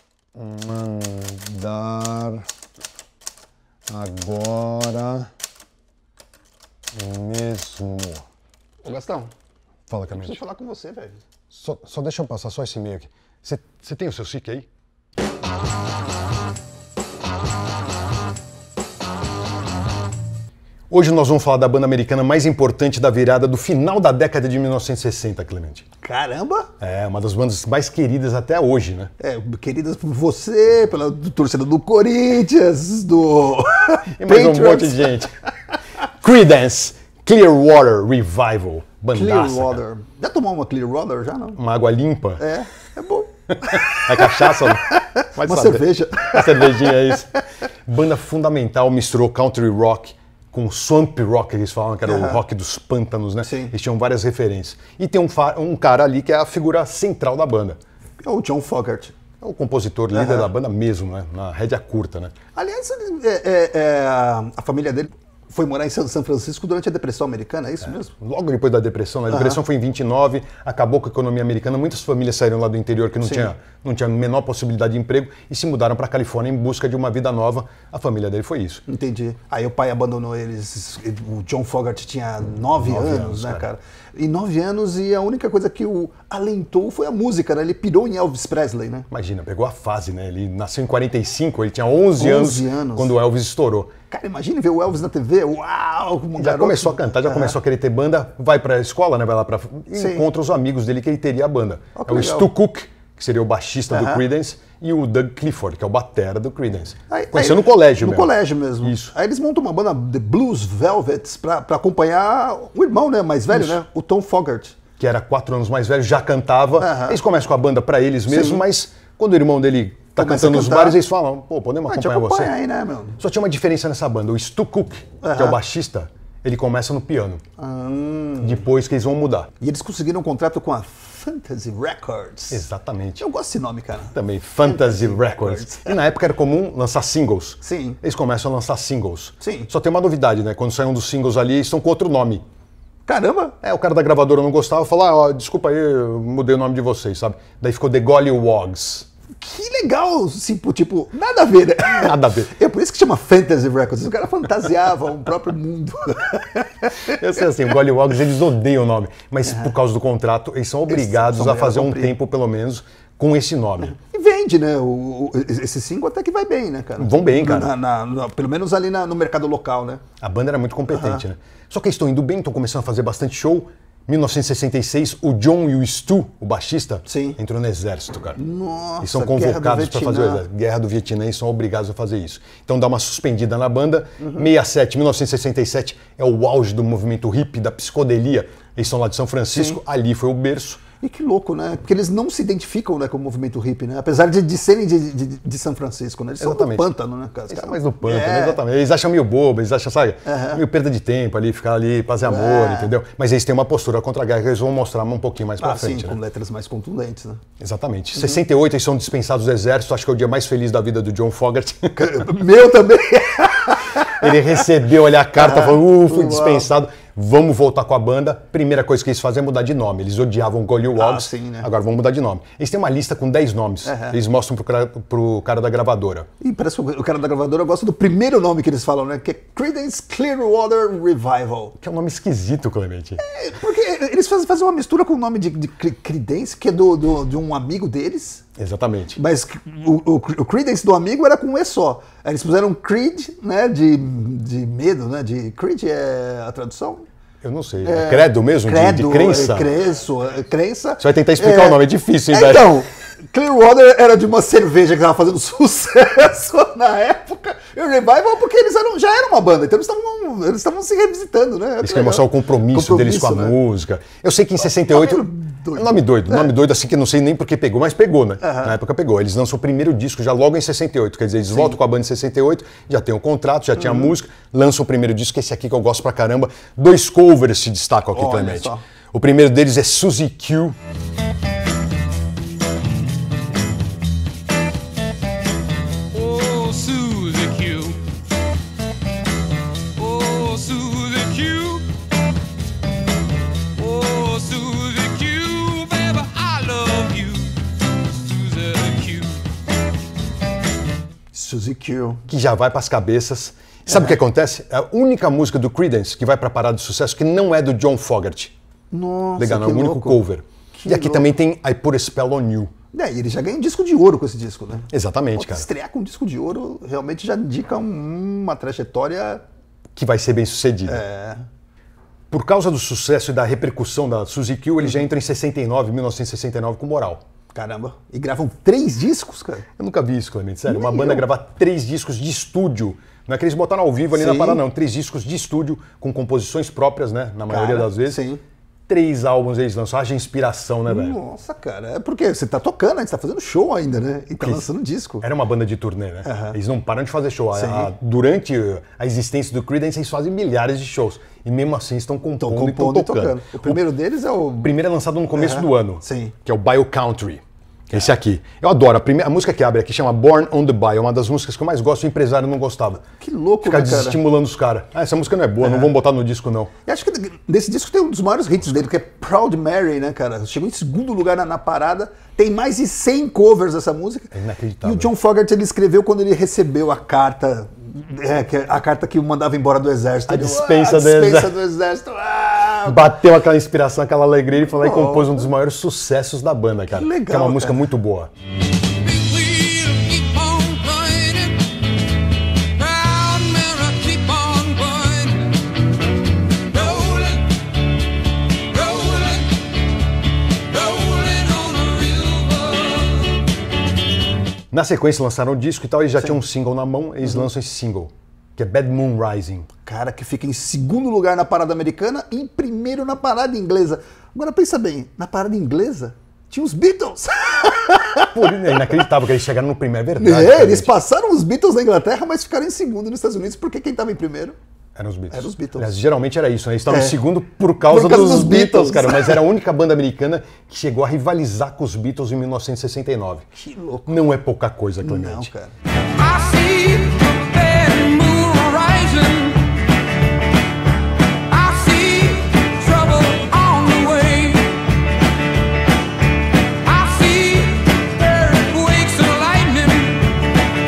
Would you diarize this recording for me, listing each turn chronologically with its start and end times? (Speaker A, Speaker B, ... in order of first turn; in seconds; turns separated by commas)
Speaker A: 0.4-2.4, Speaker A: 3.9-5.3, Speaker A: 6.9-8.3, Speaker B: 8.8-9.3, Speaker A: 9.9-10.4, Speaker B: 10.1-11.2, Speaker A: 11.5-14.7, Speaker A: 20.9-25.9, Speaker B: 26.0-26.7, Speaker A: 26.8-29.1, Speaker B: 29.2-35.2, Speaker A: 34.2-35.3, Speaker A: 36.2-39.8, Speaker B: 39.1-41.6, Speaker A: 41.5-42.4, Speaker B: 42.4-47.1, Speaker A: 43.6-47.3, Speaker A: 47.9-57.8, Speaker B: 52.1-52.4, Speaker B: 53.5-53.7, Speaker B: 58.2-59.1, Speaker A: 59.4-62.4, Speaker B: 60.1-60.5, Speaker B: 62.5-68.1, Speaker A: 68.0-78.8, Speaker B: 69.3-69.6, Speaker B: 73.2-73.5, Speaker B: 78.9-89.1, Speaker A: 82.8-83.7, Speaker A: 89.1-93.9, Speaker B: 92.2-93.1, Speaker B: 94.1-97.6, Speaker A: 96.4-109.1, Speaker B: 100.0-100.2, Speaker B: 102.0-102.5, Speaker B: 103.9-104.2, Speaker B: 107.1-114.8, Speaker A: 113.5-113.8, Speaker A: 115.0-122.5, Speaker B: 116.8-117.2, Speaker B: 118.3-118.6, Speaker B: 120.2-121.0, Speaker B: 121.9-123.2, Speaker A: 123.2-127.4, Speaker B: 125.2-125.6, Speaker B: 127.6-128.6, Speaker A: 128.4-129.5, Speaker B: 129.6-132.7, Speaker A: 132.5-133.2, Speaker B: 133.2-136.0, Speaker A: 134.1-142.4, Speaker B: 137.6-138.0, Speaker B: 139.4-139.7, Speaker B: 143.1-143.6, Speaker A: 143.6-149.1, Speaker B: 149.4-157.2, Speaker A: 151.8-152.5, Speaker A: 157.1-164.0, Speaker B: 160.9-162.2, Speaker B: 163.9-170.0, Speaker A: 167.0-167.7, Speaker A: 170.2-178.4, Speaker B: 170.9-171.2, Speaker B: 177.1-177.4, Speaker B: 178.4-180.4, Speaker A: 179.0-190.8, Speaker B: 189.5-189.8, Speaker B: 191.0-198.6, Speaker A: 196.4-196.9, Speaker A: 197.5-206.2, Speaker B: 200.2-200.6, Speaker B: 202.2-202.9, Speaker B: 205.6-207.4, Speaker A: 207.6-212.3, Speaker B: 212.0-214.3, Speaker A: 214.0-226.3, Speaker B: 215.4-216.7, Speaker B: 221.0-221.7, Speaker B: 223.9-224.2, Speaker B: 226.4-231.8, Speaker A: 231.8-233.2, Speaker B: 233.2-238.4, Speaker A: 238.6-239.2, Speaker B: 239.2-247.1, Speaker A: 247.4-249.7, Speaker B: 247.8-263.6, Speaker A: 251.0-252.8, Speaker A: 261.8-280.8, Speaker B: 264.7-266.5, Speaker B: 268.4-268.8, Speaker B: 273.8-274.1, Speaker B: 278.1-278.8, Speaker C: 286.1-288.0, Speaker C: 290.0-291.9, Speaker C: 293.8-297.5, Speaker C: 298.1-299.4, Speaker B: 301.3-302.2, Speaker A: 302.3-308.5, Speaker B: 303.9-304.2, Speaker B: 308.9-310.2, Speaker A: 309.4-312.7, Speaker B: 310.7-311.3, Speaker B: 312.9-319.4, Speaker A: 314.9-315.7, Speaker A: 319.9-321.0, Speaker B: 320.9-321.4, Speaker A: 322.3-327.2, Speaker B: 327.5-329.7, Speaker A: 329.8-338.2, Speaker B: 330.7-331.2, Speaker B: 334.1-334.6, Speaker B: 337.5-338.4, Speaker A: 338.9-341.2, Speaker B: 340.9-345.3, Speaker A: 344.4-344.7, Speaker A: 345.2-353.8, Speaker B: 346.2-346.6, Speaker B: 347.5-347.9, Speaker B: 352.4-354.7, Speaker A: 354.6-363.0, Speaker B: 355.3-356.4, Speaker B: 363.2-364.2, Speaker A: 363.6-366.7, Speaker B: 365.6-365.9, Speaker B: 366.9-374.3, Speaker A: 374.3-375.1, Speaker B: 374.8-383.1, Speaker A: 380.3-381.6, Speaker A: 382.9-388.3, Speaker B: 384.7-385.5, Speaker B: 386.9-387.9, Speaker C: 389.0-391.8, Speaker C: 392.8-395.7, Speaker C: 396.7-397.6, Speaker C: 398.7-399.6, Speaker C: 400.7-403.4, Speaker A: 404.7-409.7, Speaker B: 409.8-418.9, Speaker A: 418.3-420.9, Speaker B: 420.2-424.6, Speaker A: 424.9-433.5, Speaker B: 425.3-425.9, Speaker B: 426.9-427.2, Speaker B: 427.8-429.4, Speaker B: 433.6-434.1, Speaker A: 434.1-435.5, Speaker B: 435.0-435.8, Speaker C: 436.2-439.7, Speaker C: 441.5-444.8, Speaker C: 446.8-450.4